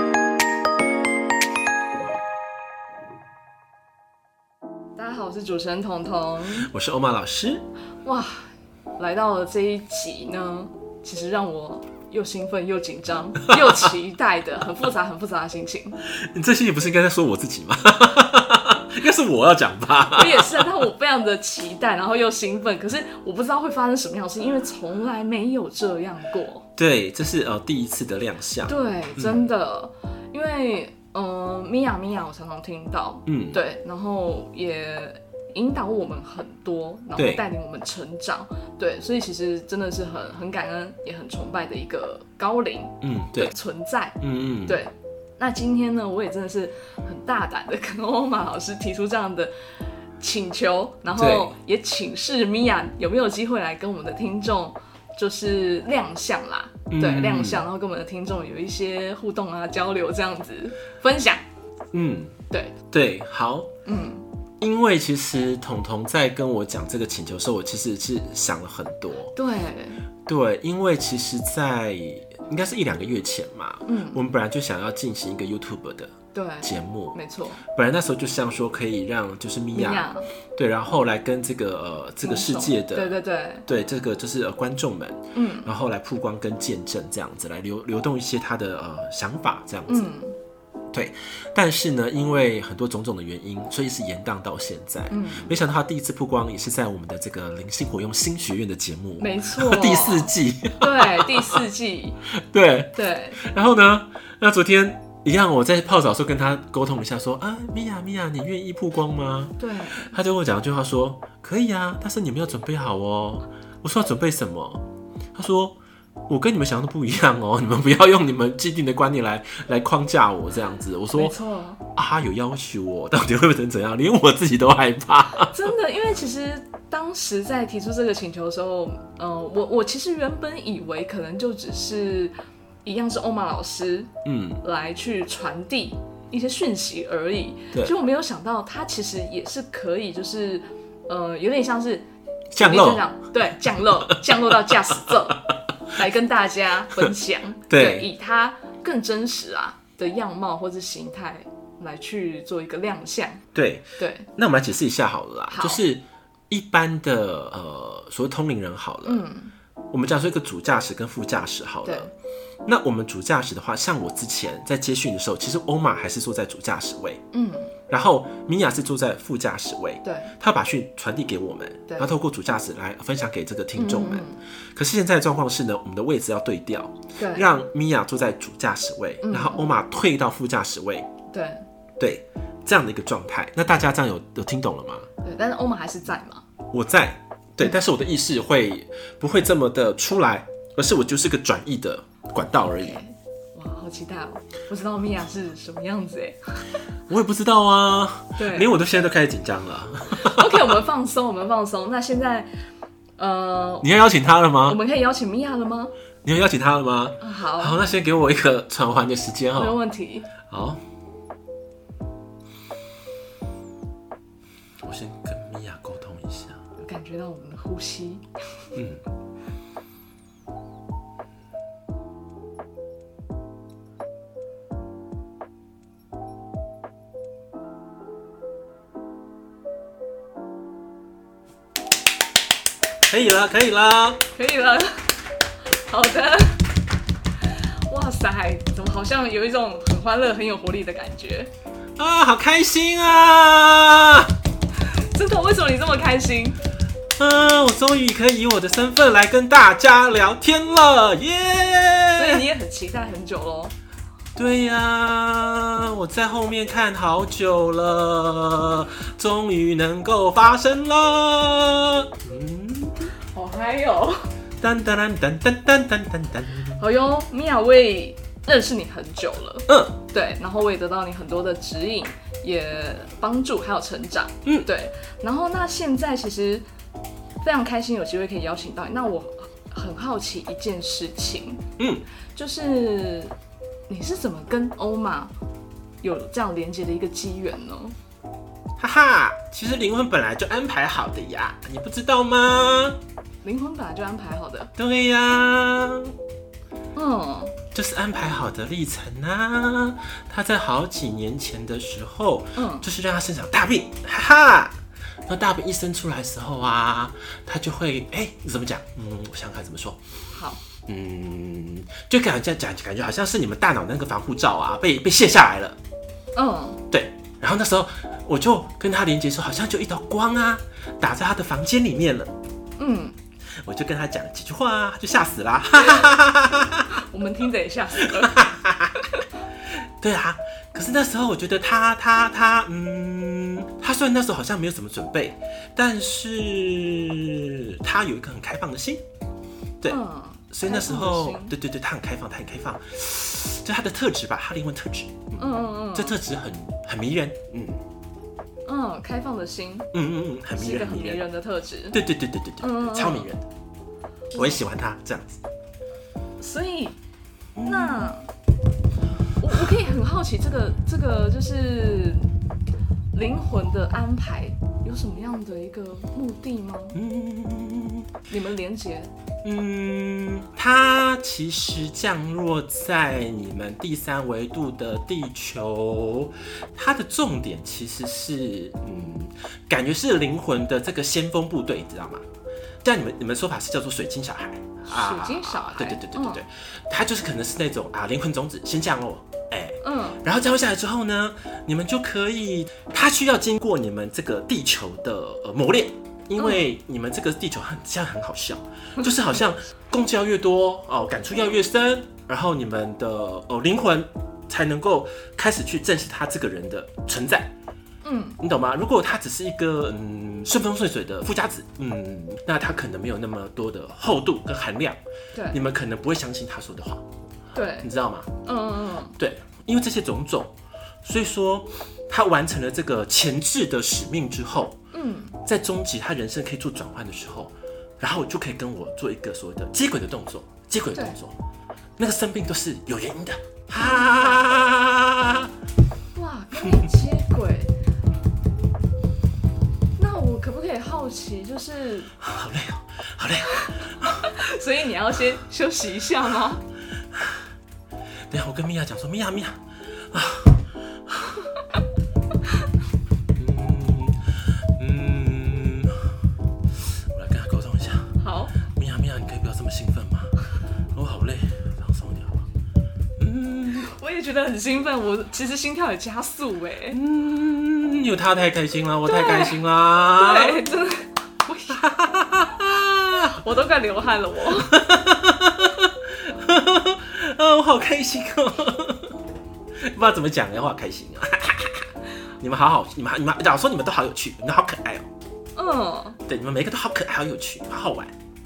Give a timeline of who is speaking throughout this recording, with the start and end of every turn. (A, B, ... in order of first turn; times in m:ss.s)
0:05.0-0:06.7 A
0:06.6-0:07.6 B
0:08.0-0:16.0 A
0:16.0-0:20.7 B
0:20.1-0:26.7 A
0:26.8-0:29.4 B
0:28.7-0:49.5 A
0:33.3-0:33.6 B
0:37.2-0:37.4 B
0:43.0-0:43.5 B
0:44.2-0:44.8 B
0:50.2-1:01.4 A
0:51.1-0:51.5 B
0:56.9-0:57.6 B
1:01.9-1:02.4 B
1:02.9-1:03.7 B
1:03.8-1:04.2 A
1:04.6-1:09.3 B
1:09.3-1:10.0 A
1:10.2-1:23.1 B
1:13.8-1:14.2 A
1:16.3-1:17.6 A
1:19.7-1:20.3 A
1:22.2-1:23.6 A
1:23.6-1:30.1 B
1:25.3-1:25.7 A
1:29.9-1:30.4 A
1:30.9-1:41.6 B
1:35.1-1:35.5 A
1:39.2-1:42.2 A
1:42.3-1:54.8 B
1:42.9-1:43.4 A
1:49.6-1:50.1 A
1:55.3-2:01.4 B
2:01.1-2:01.8 A
2:01.9-2:05.6 B
2:05.4-2:12.3 A
2:12.8-2:14.1 A
2:14.2-2:14.6 B
2:14.6-2:22.1 A
2:22.5-2:23.0 B
2:22.6-2:33.4 A
2:24.9-2:25.3 B
2:27.7-2:28.1 B
2:33.5-2:33.8 B
2:34.0-2:34.3 A
2:34.4-2:39.2 B
2:35.5-2:35.8 A
2:39.0-2:39.5 A
2:39.9-2:42.0 B
2:41.8-2:42.1 A
2:42.6-2:47.2 B
2:47.3-2:47.7 A
2:47.9-3:01.1 B
2:50.0-2:50.3 A
2:53.8-2:54.4 A
2:57.2-2:57.5 A
2:59.2-2:59.6 A
3:01.3-3:01.6 A
3:02.0-3:05.1 B
3:05.2-3:06.4 A
3:06.7-3:13.0 B
3:12.8-3:16.7 A
3:17.1-3:20.8 B
3:18.4-3:18.7 A
3:20.1-3:22.5 A
3:23.2-3:23.9 A
3:23.8-3:24.8 B
3:24.6-3:25.9 A
3:26.2-3:29.8 B
3:27.2-3:27.8 A
3:29.6-3:30.3 A
3:30.4-3:30.8 B
3:34.8-3:36.6 B
3:36.8-3:38.7 A
3:38.7-3:39.0 B
3:53.1-3:54.2 B
3:54.3-3:55.2 A
3:55.7-3:56.6 A
3:57.5-4:01.5 A
4:02.0-4:04.3 B
4:04.8-4:06.6 A
4:07.2-4:12.4 B
4:12.1-4:13.8 A
4:14.4-4:23.1 B
4:23.3-4:24.3 A
4:24.6-4:26.8 B
4:26.8-4:36.6 A
4:29.7-4:29.9 B
4:37.4-4:41.6 A
4:41.8-4:42.0 B
4:42.4-4:43.3 A
4:43.9-4:45.3 A
4:46.0-4:48.0 A
4:48.8-4:53.0 B
4:53.4-4:54.7 A
4:54.8-4:56.1 B
4:57.0-4:57.5 A
4:57.7-5:04.7 B
5:02.6-5:02.8 A
5:05.3-5:10.0 B
5:10.3-5:10.6 A
5:10.8-5:15.8 B
5:16.3-5:16.8 A
5:16.9-5:22.3 B
5:22.8-5:23.1 A
5:23.6-5:27.0 B
5:25.8-5:26.1 A
5:26.9-5:28.5 A
5:28.0-5:29.1 B
5:29.7-5:39.0 B
5:39.9-5:41.5 A
5:40.5-5:47.8 B
5:45.4-5:46.2 A
5:48.6-5:49.9 A
5:49.9-5:51.2 B
5:50.5-5:52.0 A
5:51.9-5:53.4 B
5:52.6-5:53.3 A
5:54.3-5:54.6 A
5:54.3-5:55.4 B
5:56.4-5:57.0 A
5:57.6-5:58.1 B
5:57.6-5:58.3 A
5:59.4-6:02.3 A
6:03.1-6:07.0 A
6:06.9-6:08.1 B
6:08.3-6:09.1 A
6:09.4-6:22.2 B
6:22.8-6:47.5 B
6:24.9-6:26.4 A
6:29.8-6:30.2 A
6:36.4-6:36.7 A
6:48.0-6:48.4 A
6:48.4-6:55.0 B
6:55.5-6:57.0 B
6:57.5-6:57.9 A
6:57.8-6:58.3 B
6:58.4-6:59.2 A
6:59.2-7:04.8 B
7:04.9-7:05.4 A
7:05.4-7:11.3 B
7:12.0-7:15.5 B
7:13.8-7:14.4 A
7:16.1-7:17.7 A
7:16.6-7:16.9 B
7:20.0-7:22.1 A
7:22.2-7:24.3 B
7:23.5-7:26.6 A
7:27.1-7:27.4 B
7:28.3-7:31.3 B
7:33.3-7:36.1 B
7:36.9-7:40.3 B
7:38.2-7:38.6 A
7:40.9-7:42.4 B
7:43.2-7:43.9 B
7:43.7-7:47.0 A
7:46.9-7:50.7 B
7:49.0-7:49.6 A
7:50.1-7:51.9 A
7:51.7-7:53.3 B
7:53.1-7:54.8 A
7:54.7-7:59.2 B
7:59.8-8:01.9 B
8:02.4-8:05.1 B
8:05.6-8:06.2 A
8:06.3-8:08.1 B